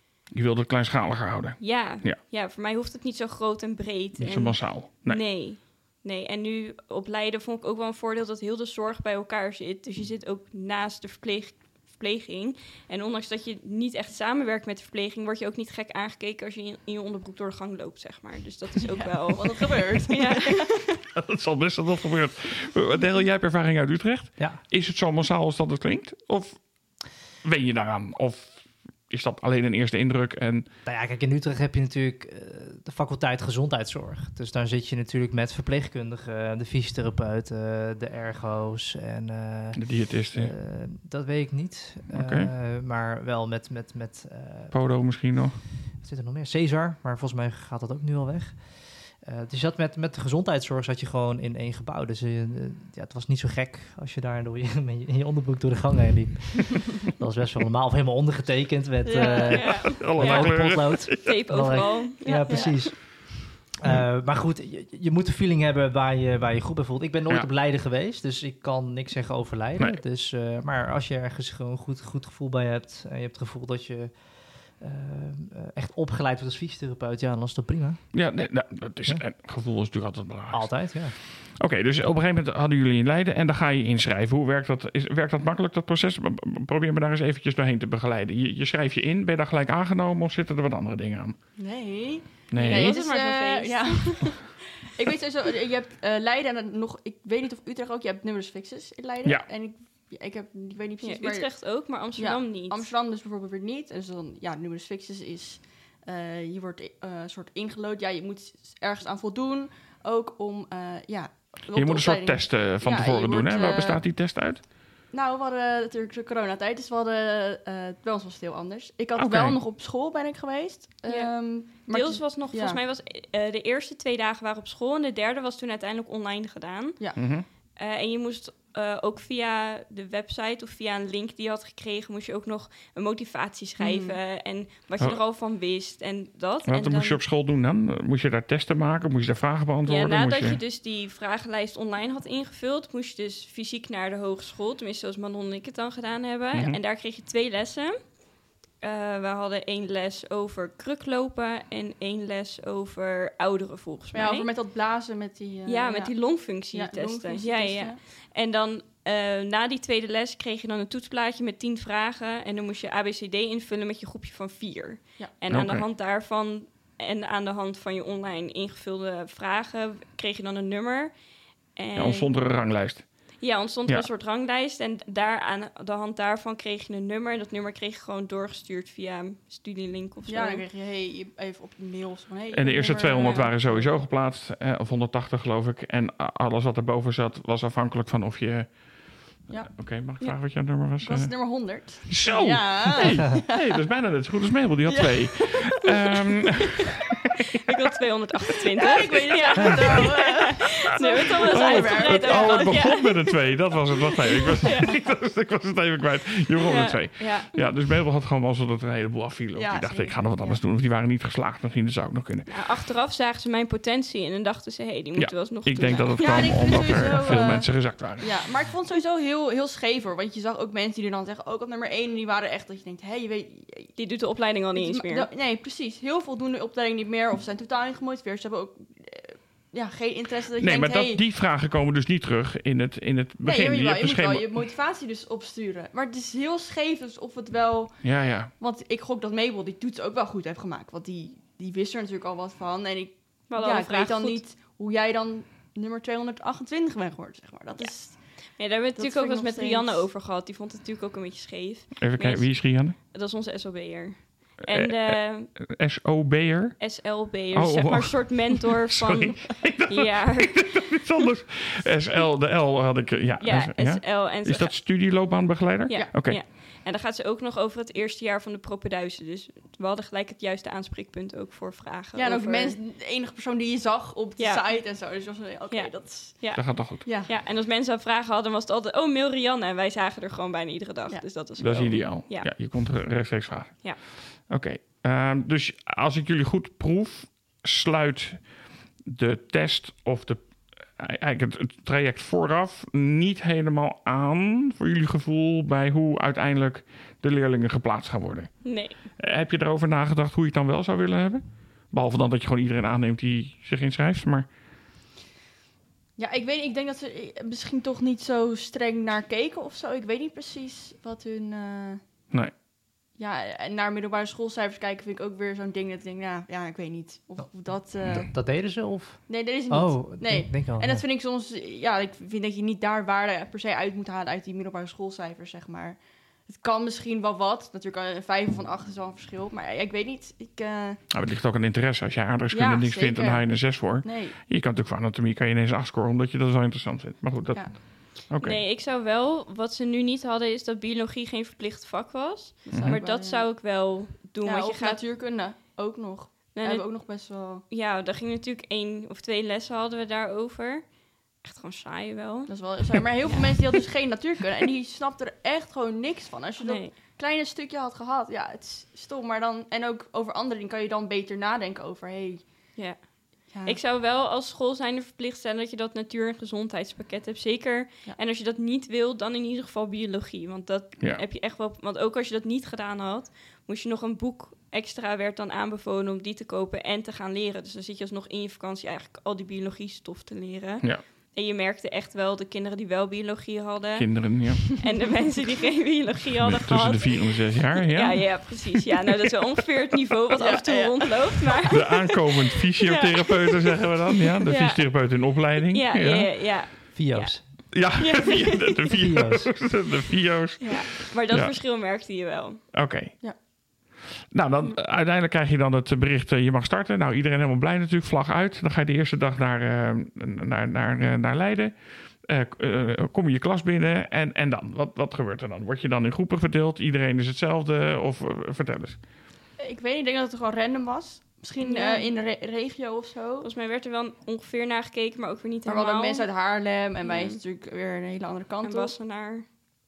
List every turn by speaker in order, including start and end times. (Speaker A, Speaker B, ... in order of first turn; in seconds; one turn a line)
Speaker A: 0.3-2.2
Speaker B: 1.6-20.9
Speaker A: 4.2-5.2
Speaker C: 19.0-20.7
Speaker A: 21.1-30.7
Speaker D: 30.9-44.7
Speaker A: 39.8-40.5
Speaker A: 42.1-42.5
Speaker A: 44.7-45.6
Speaker D: 45.8-78.5
Speaker C: 59.0-59.9
Speaker B: 59.5-63.0
Speaker A: 59.6-61.4
Speaker C: 62.4-62.8
Speaker A: 78.1-91.4
Speaker D: 80.5-81.2
Speaker C: 91.6-114.0
Speaker A: 92.5-93.0
Speaker B: 92.5-94.3
Speaker B: 101.0-102.9
Speaker A: 111.7-114.6
Speaker C: 115.1-122.8
Speaker A: 119.2-119.6
Speaker B: 121.0-137.2
Speaker C: 127.0-127.2
Speaker A: 127.2-127.5
Speaker C: 133.8-134.2
Speaker A: 136.7-140.6
Speaker B: 139.8-148.2
Speaker B: 148.8-154.5
Speaker C: 154.1-158.0
Speaker B: 155.7-172.3
Speaker A: 165.5-165.8
Speaker A: 171.9-174.1
Speaker B: 173.4-180.6
Speaker C: 180.3-183.9
Speaker A: 182.5-196.9
Speaker B: 183.1-183.5
Speaker C: 191.0-193.6
Speaker C: 194.8-195.8
Speaker B: 197.7-203.2
Speaker C: 198.8-203.1
Speaker A: 201.5-212.6
Speaker B: 204.6-204.9
Speaker B: 206.6-207.7
Speaker C: 209.5-210.6
Speaker B: 212.5-217.5
Speaker A: 215.2-218.6
Speaker C: 215.9-224.0
Speaker B: 223.9-225.3
Speaker C: 224.7-231.2
Speaker A: 230.6-234.7
Speaker C: 233.4-250.1
Speaker A: 238.0-238.5
Speaker B: 243.5-244.4
Speaker B: 247.8-255.5
Speaker A: 252.0-252.9
Speaker A: 254.7-266.4
Speaker B: 256.8-260.9
Speaker B: 263.4-264.8
Speaker B: 265.9-272.8
Speaker C: 272.1-276.5
Speaker B: 274.4-275.0
Speaker B: 275.7-282.5
Speaker A: 276.5-277.1
Speaker C: 277.0-277.3
Speaker A: 281.6-304.5
Speaker B: 298.6-299.0
Speaker C: 306.2-312.0
Speaker C: 313.1-318.5
Speaker D: 318.0-321.0
Speaker C: 319.3-331.0
Speaker A: 331.1-338.6
Speaker C: 332.5-334.3
Speaker B: 338.4-345.0
Speaker C: 342.7-343.5
Speaker A: 342.7-343.0
Speaker C: 344.4-347.6
Speaker B: 346.5-353.8
Speaker C: 352.5-362.7
Speaker B: 356.6-356.9
Speaker B: 362.8-391.8
Speaker C: 363.5-363.8
Speaker A: 383.9-384.8
Speaker A: 386.4-388.6
Speaker C: 390.4-391.3
Speaker A: 391.7-396.8
Speaker B: 392.8-393.4
Speaker B: 394.4-395.0
Speaker B: 395.7-398.8
Speaker D: 396.9-397.8
Speaker A: 397.7-401.5
Speaker D: 399.0-399.6
Speaker B: 400.6-402.6
Speaker A: 402.7-419.0
Speaker C: 419.6-423.5
Speaker B: 421.6-422.1
Speaker B: 423.4-426.4
Speaker C: 425.7-428.9
Speaker B: 427.0-427.4
Speaker B: 428.6-429.4